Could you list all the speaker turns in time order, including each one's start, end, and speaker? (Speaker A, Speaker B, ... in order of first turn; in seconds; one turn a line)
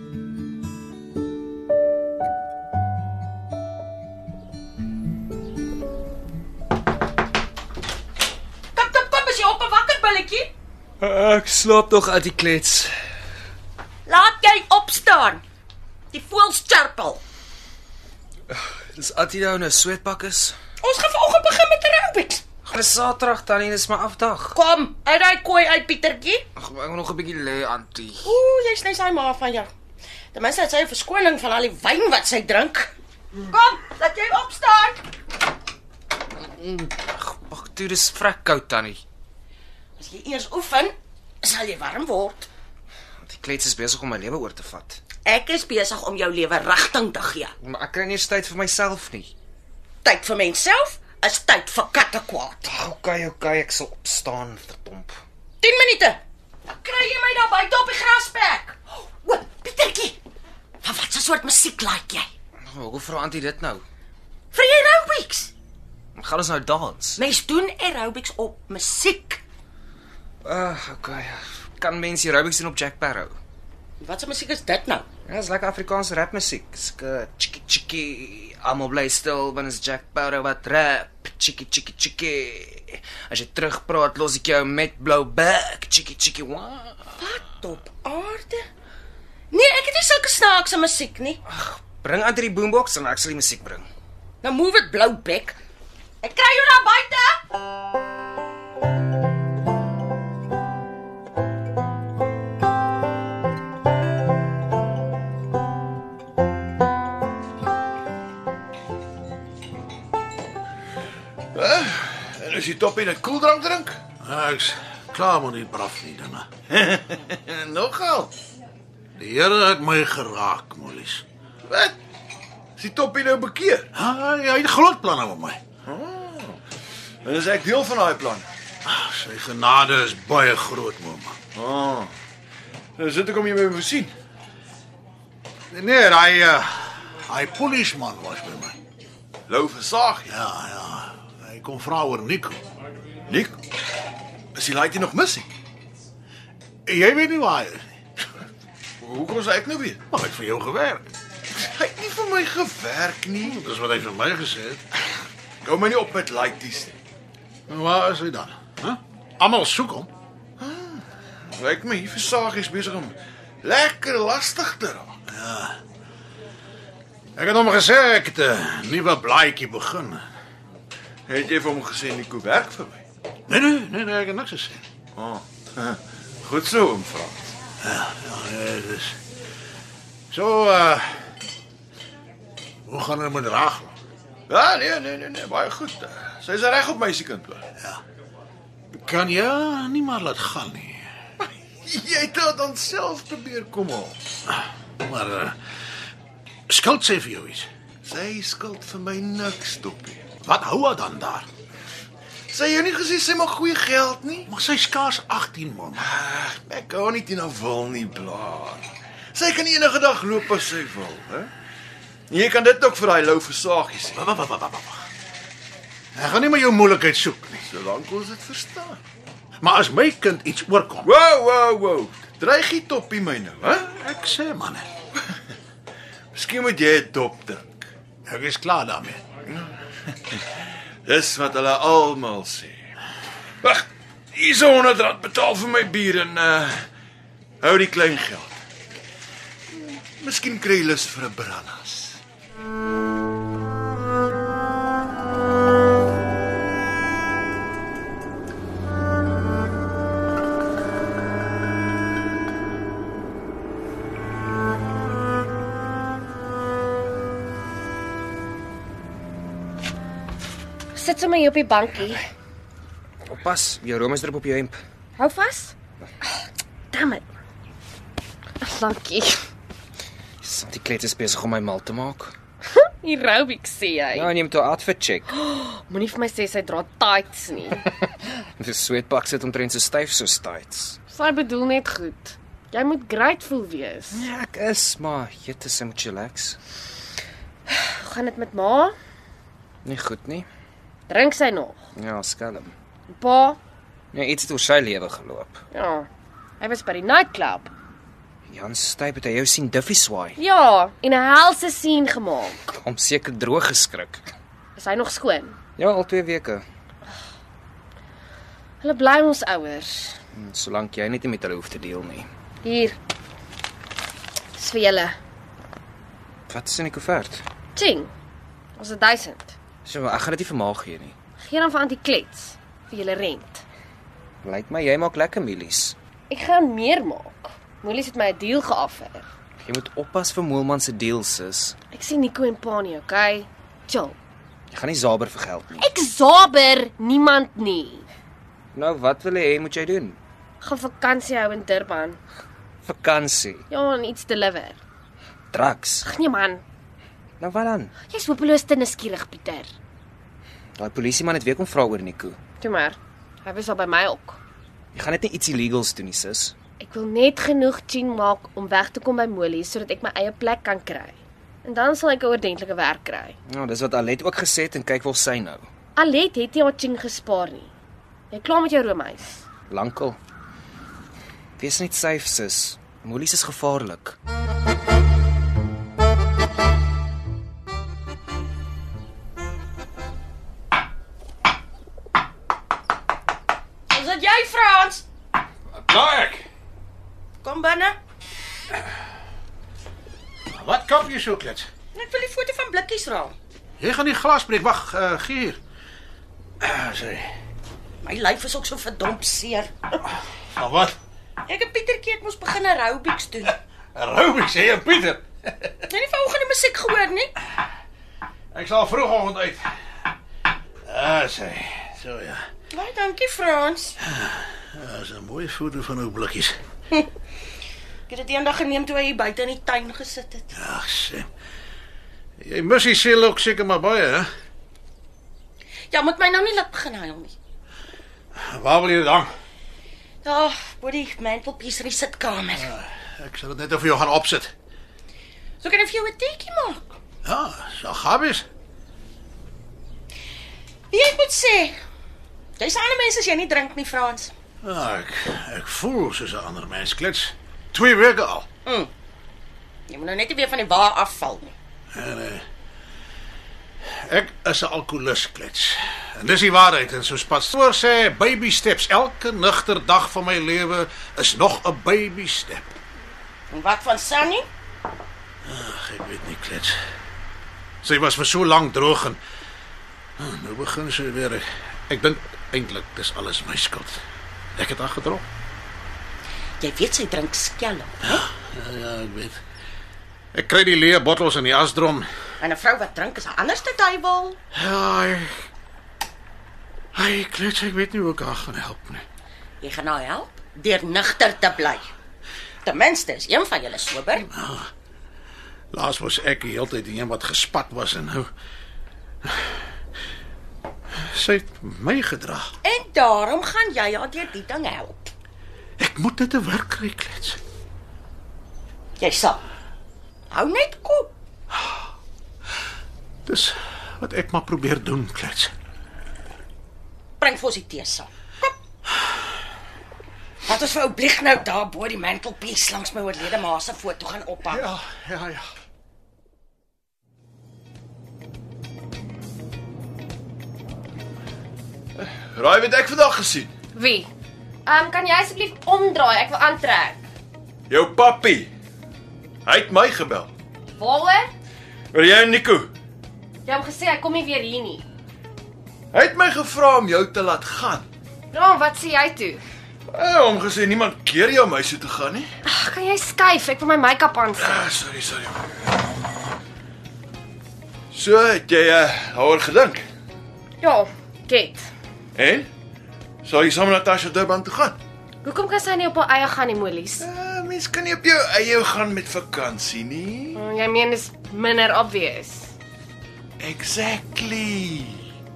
Speaker A: 8.8-10.5
Speaker B: 11.0-12.9
Speaker A: 14.1-15.4
Speaker A: 16.1-17.2
Speaker B: 18.5-20.6
Speaker A: 20.8-22.4
Speaker B: 22.6-24.6
Speaker A: 24.5-26.4
Speaker B: 26.6-28.3
Speaker A: 28.2-29.7
Speaker A: 30.3-35.0
Speaker B: 36.5-39.0
Speaker A: 40.0-42.5
Speaker B: 43.2-45.0
Speaker A: 45.2-47.5
Speaker B: 47.6-49.3
Speaker A: 50.0-52.7
Speaker B: 52.6-55.2
Speaker A: 55.6-60.2
Speaker A: 60.8-62.3
Speaker B: 62.7-63.8
Speaker A: 64.5-65.5
Speaker B: 66.2-67.2
Speaker A: 67.2-69.4
Speaker B: 70.4-73.3
Speaker A: 74.0-75.0
Speaker B: 75.3-87.1
Speaker A: 87.2-88.7
Speaker A: 89.5-91.4
Speaker B: 91.5-93.9
Speaker A: 94.4-95.6
Speaker A: 96.2-97.4
Speaker C: 111.5-114.0
Speaker D: 114.2-116.5
Speaker C: 116.7-118.3
Speaker D: 119.2-121.2
Speaker C: 121.7-122.0
Speaker C: 122.8-123.9
Speaker D: 124.0-125.6
Speaker C: 125.8-126.6
Speaker C: 127.2-128.5
Speaker D: 128.8-131.4
Speaker C: 131.5-132.1
Speaker C: 133.0-134.1
Speaker D: 135.7-138.8
Speaker C: 139.5-140.3
Speaker D: 140.3-142.6
Speaker C: 143.3-143.6
Speaker C: 144.6-145.5
Speaker D: 146.9-147.8
Speaker C: 149.0-150.0
Speaker D: 150.1-151.1
Speaker C: 151.6-153.6
Speaker D: 153.4-154.8
Speaker C: 155.6-156.9
Speaker D: 157.7-160.1
Speaker C: 160.6-165.1
Speaker D: 165.3-165.8
Speaker D: 167.4-170.2
Speaker C: 171.3-173.0
Speaker D: 173.5-174.8
Speaker C: 175.2-177.5
Speaker D: 177.8-179.2
Speaker D: 180.3-181.1
Speaker D: 182.9-183.9
Speaker C: 184.5-187.6
Speaker D: 189.0-191.1
Speaker C: 191.4-194.2
Speaker D: 195.0-195.6
Speaker D: 196.7-197.7
Speaker C: 198.1-200.2
Speaker D: 200.4-201.5
Speaker C: 202.5-204.5
Speaker D: 204.5-206.0
Speaker C: 206.0-211.5
Speaker C: 212.3-214.2
Speaker D: 214.2-215.1
Speaker D: 216.2-217.7
Speaker C: 217.7-219.0
Speaker D: 219.6-221.1
Speaker C: 221.0-223.9
Speaker D: 224.0-224.9
Speaker C: 226.3-227.9
Speaker D: 228.3-229.2
Speaker C: 229.5-232.9
Speaker C: 233.6-236.9
Speaker C: 237.6-238.6
Speaker C: 239.7-242.2
Speaker E: 260.9-262.2
Speaker B: 263.3-264.8
Speaker E: 265.2-265.7
Speaker E: 266.9-267.2
Speaker E: 268.6-269.4
Speaker B: 270.4-272.4
Speaker E: 272.8-274.3
Speaker B: 274.1-275.3
Speaker E: 275.3-277.8
Speaker B: 278.1-281.0
Speaker E: 281.1-284.3
Speaker B: 284.1-286.6
Speaker E: 287.7-288.9
Speaker B: 289.8-290.5
Speaker E: 291.1-291.8
Speaker B: 292.0-292.7
Speaker E: 293.1-293.6
Speaker B: 294.1-295.6
Speaker E: 295.7-296.1
Speaker E: 296.6-297.7
Speaker B: 298.5-300.4
Speaker E: 300.4-302.7
Speaker B: 302.7-304.3
Speaker E: 304.8-305.6
Speaker B: 305.8-306.6
Speaker E: 308.8-310.2
Speaker B: 310.4-312.3
Speaker E: 312.6-313.0
Speaker E: 314.6-315.2
Speaker B: 316.5-317.4
Speaker E: 317.8-318.1
Speaker E: 318.8-319.6
Speaker B: 319.9-321.1
Speaker E: 321.4-323.6
Speaker B: 324.4-325.9
Speaker E: 326.3-329.3
Speaker B: 329.6-331.8
Speaker E: 331.9-334.2
Speaker B: 334.7-335.9
Speaker E: 335.8-338.1
Speaker B: 338.7-340.2
Speaker E: 340.6-342.2
Speaker B: 342.8-343.6
Speaker E: 343.7-344.8
Speaker B: 345.5-346.1
Speaker E: 346.0-346.6
Speaker B: 347.4-347.9
Speaker E: 348.1-349.7
Speaker B: 350.8-352.4
Speaker E: 352.6-354.4
Speaker B: 354.9-356.5
Speaker E: 356.8-363.4
Speaker B: 363.5-365.7
Speaker E: 366.0-367.7
Speaker E: 368.3-369.4
Speaker B: 369.7-370.2
Speaker B: 371.6-374.2
Speaker A: 383.9-385.1
Speaker D: 385.7-386.5
Speaker A: 387.4-388.0
Speaker D: 390.5-391.7
Speaker A: 391.9-393.4
Speaker D: 393.8-395.6
Speaker D: 396.6-397.3
Speaker A: 398.0-399.7
Speaker D: 400.6-401.0
Speaker A: 401.5-403.6
Speaker D: 403.9-405.7
Speaker A: 405.9-407.3
Speaker D: 408.5-409.7
Speaker D: 410.9-412.4
Speaker A: 412.7-414.0
Speaker D: 414.0-416.6
Speaker A: 418.1-420.5
Speaker D: 420.6-421.3
Speaker D: 422.4-424.3
Speaker A: 425.9-427.4
Speaker D: 428.4-429.3
Speaker A: 430.2-432.7
Speaker D: 432.8-434.5
Speaker A: 435.6-436.9
Speaker D: 437.2-438.4
Speaker A: 440.9-441.8
Speaker A: 442.6-444.3
Speaker D: 444.6-448.5
Speaker A: 448.7-448.9
Speaker A: 449.9-451.5
Speaker D: 451.9-452.4
Speaker D: 454.0-462.8
Speaker A: 463.5-464.5
Speaker D: 465.5-466.8
Speaker D: 467.8-469.2
Speaker D: 470.2-474.0
Speaker D: 474.6-475.3
Speaker A: 476.6-478.2
Speaker D: 478.1-479.4
Speaker D: 480.3-482.1
Speaker A: 482.4-484.4
Speaker D: 484.5-485.5
Speaker D: 486.9-489.1
Speaker A: 489.6-491.9
Speaker A: 492.6-494.3
Speaker D: 494.3-494.7
Speaker D: 495.7-498.3
Speaker D: 501.1-502.5
Speaker A: 502.6-505.1
Speaker D: 505.8-507.4
Speaker A: 509.0-509.4
Speaker A: 510.3-511.1
Speaker D: 513.3-515.5
Speaker A: 517.2-518.5
Speaker A: 520.5-524.7
Speaker D: 524.5-525.5
Speaker C: 532.0-533.5
Speaker E: 533.7-534.1
Speaker E: 534.6-537.0
Speaker C: 537.7-538.5
Speaker C: 539.5-540.3
Speaker E: 540.8-541.3
Speaker C: 541.9-542.7
Speaker E: 543.5-544.9
Speaker C: 545.9-547.9
Speaker E: 548.3-549.4
Speaker C: 549.9-552.3
Speaker E: 552.5-554.7
Speaker C: 554.4-555.7
Speaker C: 557.9-559.9
Speaker E: 560.6-561.7
Speaker C: 562.1-562.5
Speaker C: 563.2-564.8
Speaker E: 565.2-567.0
Speaker C: 567.0-570.4
Speaker E: 570.4-572.5
Speaker C: 573.4-575.0